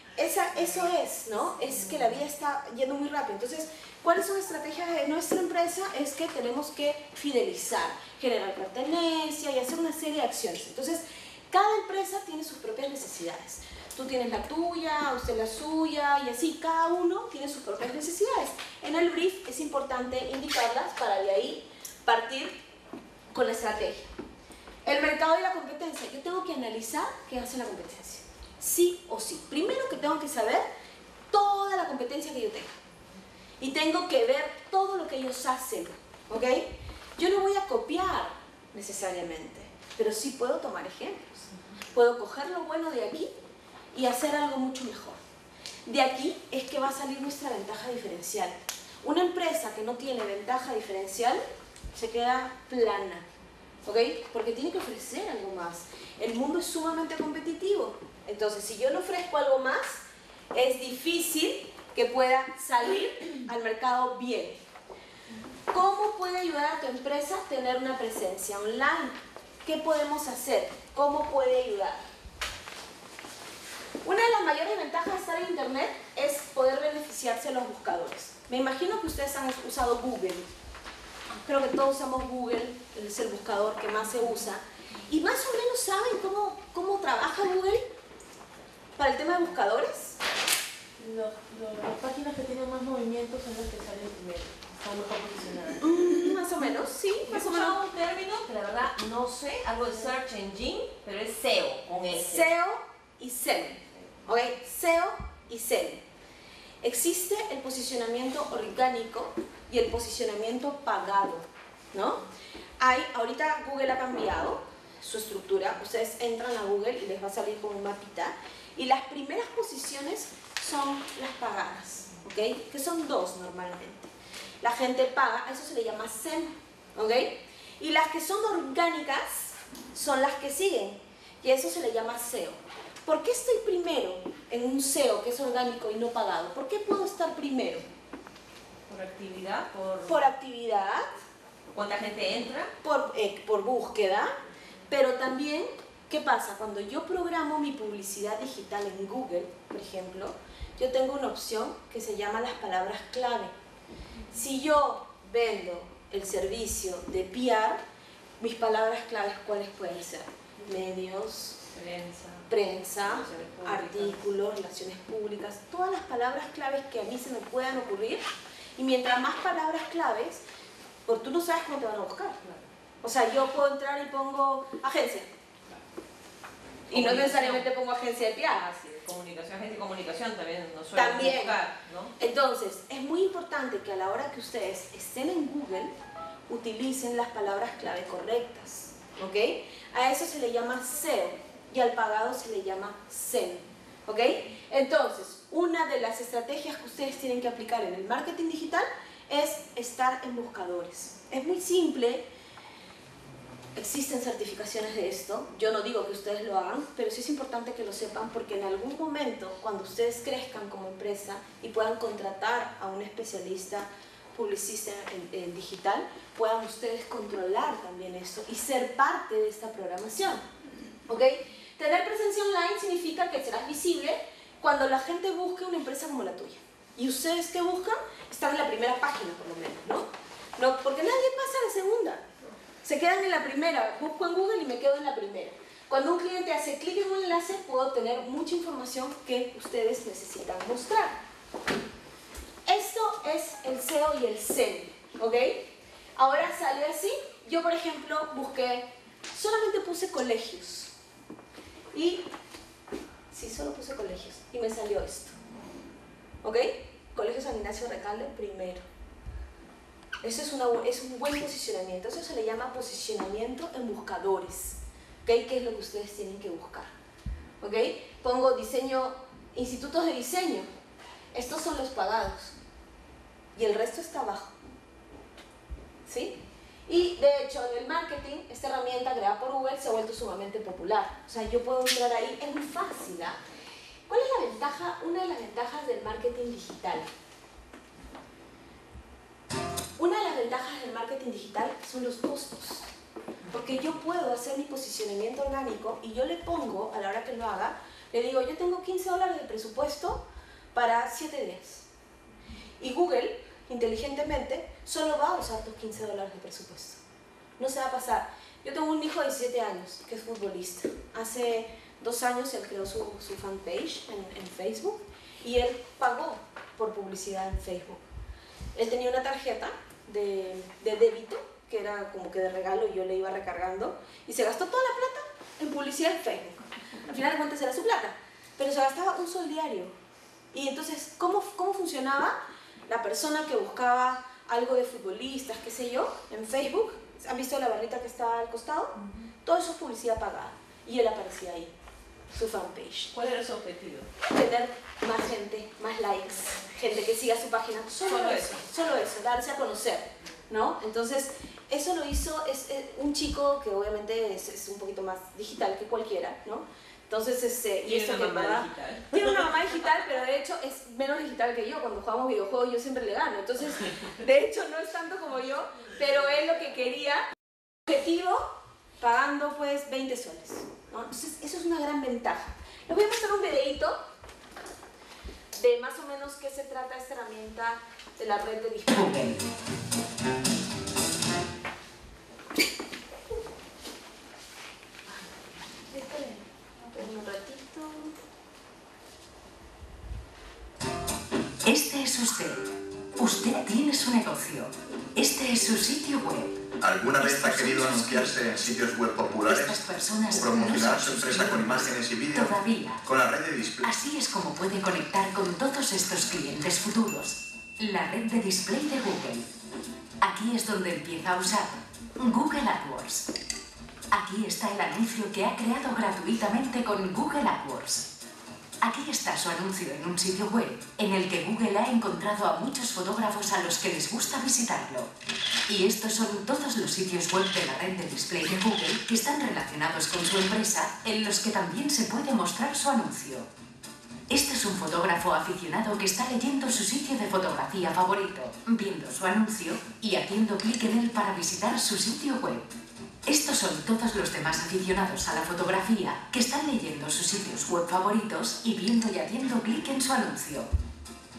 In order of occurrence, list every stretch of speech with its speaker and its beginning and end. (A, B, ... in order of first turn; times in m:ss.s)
0:00.2-0:22.6 A
0:23.3-0:24.1 A
0:24.8-0:30.6 A
0:31.3-0:32.8 A
0:33.6-0:43.3 A
0:43.9-0:45.2 A
0:45.8-0:51.4 A
0:51.9-0:53.2 A
0:53.8-1:04.6 A
1:05.7-1:12.0 A
1:14.0-1:20.5 A
1:21.3-1:27.8 A
1:29.0-1:30.2 A
1:31.0-1:35.8 B
1:35.8-1:37.8 A
1:37.3-1:42.5 C
1:42.1-1:46.0 A
1:46.8-1:52.2 A
1:52.8-2:17.9 A
2:18.9-2:20.2 C
2:20.0-2:21.2 A
2:21.7-2:22.7 C
2:22.8-2:24.3 A
2:24.9-2:33.5 A
2:34.3-2:37.8 A
2:38.4-2:41.6 A
2:41.7-2:42.5 C
2:42.5-2:48.2 A
2:43.0-2:44.3 C
2:48.8-2:50.4 A
2:51.0-2:52.4 A
2:53.0-2:55.3 A
2:56.9-2:58.7 A
2:56.9-2:57.7 C
2:58.5-3:02.1 C
3:00.9-3:01.6 A
3:02.2-3:05.9 A
3:06.5-3:22.3 A
3:23.7-3:40.4 A
3:41.1-3:52.3 A
3:52.8-4:01.2 A
4:02.6-4:05.6 A
4:06.2-4:10.9 A
4:11.9-4:12.3 A
4:13.3-4:15.4 A
4:16.4-4:18.8 A
4:20.2-4:26.9 A
4:27.6-4:30.7 A
4:31.3-4:32.5 A
4:33.5-4:34.6 A
4:36.0-4:43.4 A
4:44.1-4:47.1 A
4:50.0-4:52.9 A
4:53.5-5:01.8 A
5:02.8-5:07.0 A
5:07.6-5:18.0 A
5:18.7-5:29.9 A
5:30.5-5:41.7 A
5:42.3-5:43.1 A
5:43.1-5:44.1 C
5:44.2-6:07.2 A
5:48.0-5:48.6 C
5:57.8-5:59.4 C
6:07.8-6:14.0 A
6:15.6-6:19.2 A
6:18.9-6:19.4 D
6:25.9-6:28.1 A
6:31.6-6:32.6 D
6:33.2-6:36.6 D
6:36.8-6:43.9 E
6:37.1-6:38.7 D
6:39.4-6:43.0 D
6:43.8-6:49.4 D
6:50.2-6:53.3 D
6:54.1-6:58.1 D
6:58.8-7:05.1 D
7:05.7-7:13.5 D
7:14.3-7:22.6 D
7:23.2-7:30.7 D